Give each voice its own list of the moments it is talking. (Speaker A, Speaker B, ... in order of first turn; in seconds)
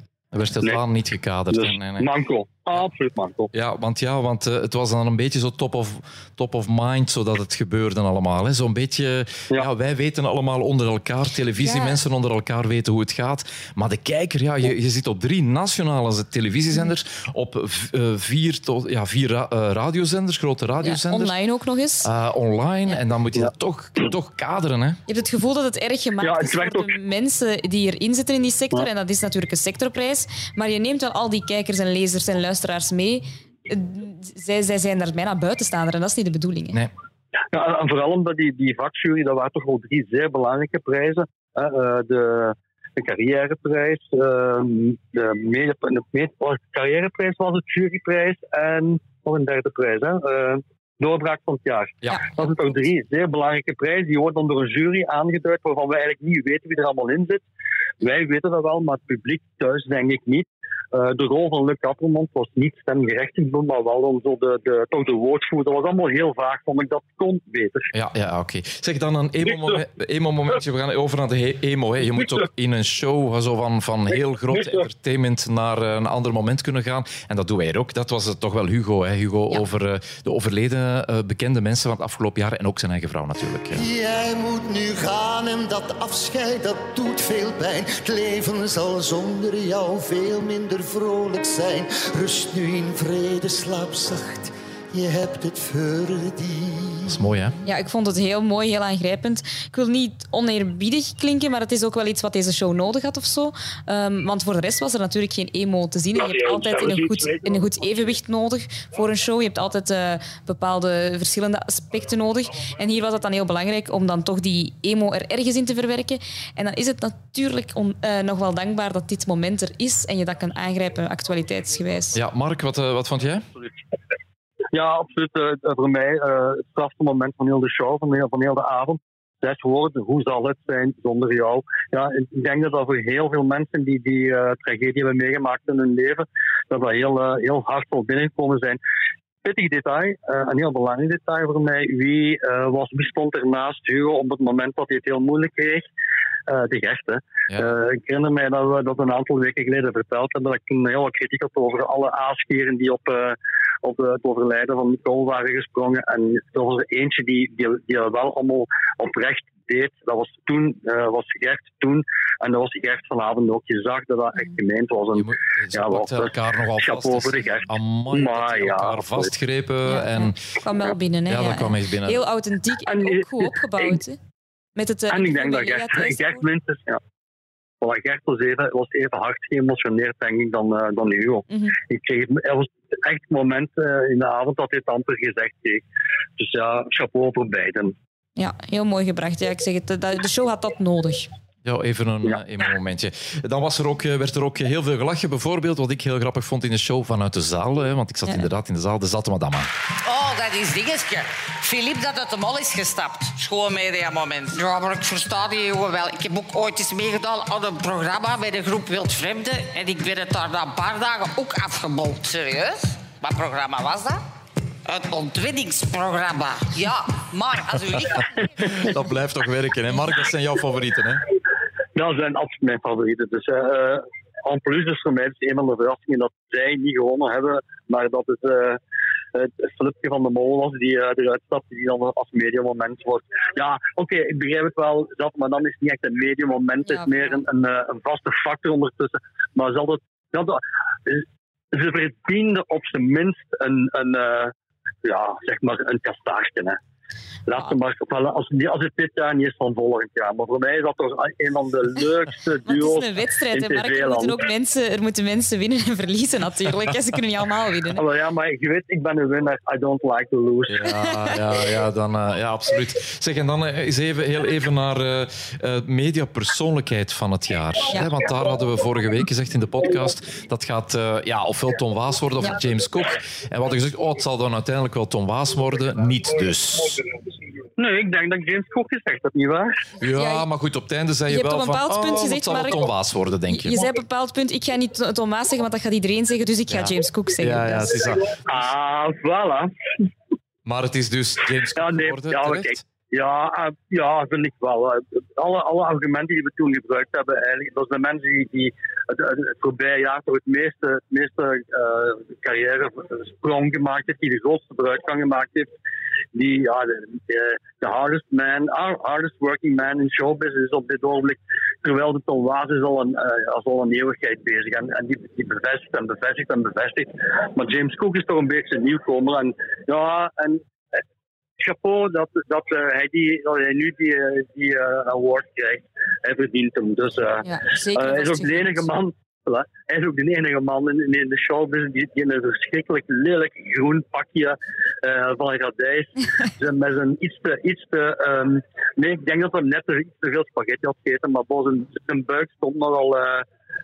Speaker A: 0.3-2.1, 3.5-21.3, 22.0-25.0, 67.9-83.8, 97.1-97.5, 122.1-123.5, 147.5-147.8, 165.1-170.4, 171.3-172.2, 191.6-199.7, 218.6-221.2, 260.7-277.0, 280.0-283.8, 286.7-288.4, 290.6-292.8
Speaker B: 1.5-3.5, 26.2-26.9, 37.5-57.4, 58.0-67.9, 106.5-107.2, 124.7-138.8, 139.4-145.8, 146.5-169.3, 172.9-173.9, 175.1-177.0, 177.8-185.8, 186.4-187.9, 221.9-228.8, 229.3-244.5, 245.0-246.8, 247.5-254.4, 257.9-260.8, 277.8-279.8, 288.4-289.7, 291.7-305.7, 306.3-321.0, 321.6-343.4
Speaker C: 11.6-12.0, 20.8-22.1, 25.1-36.8, 97.6-122.2, 169.8-174.2, 174.8-176.5, 181.5-181.8, 188.4-191.3, 236.8-237.4, 252.7-258.0, 280.0-280.5, 281.3-282.9, 283.5-288.1, 327.4-328.9
Speaker D: 83.7-97.2
Speaker E: 200.0-214.2, 214.8-218.9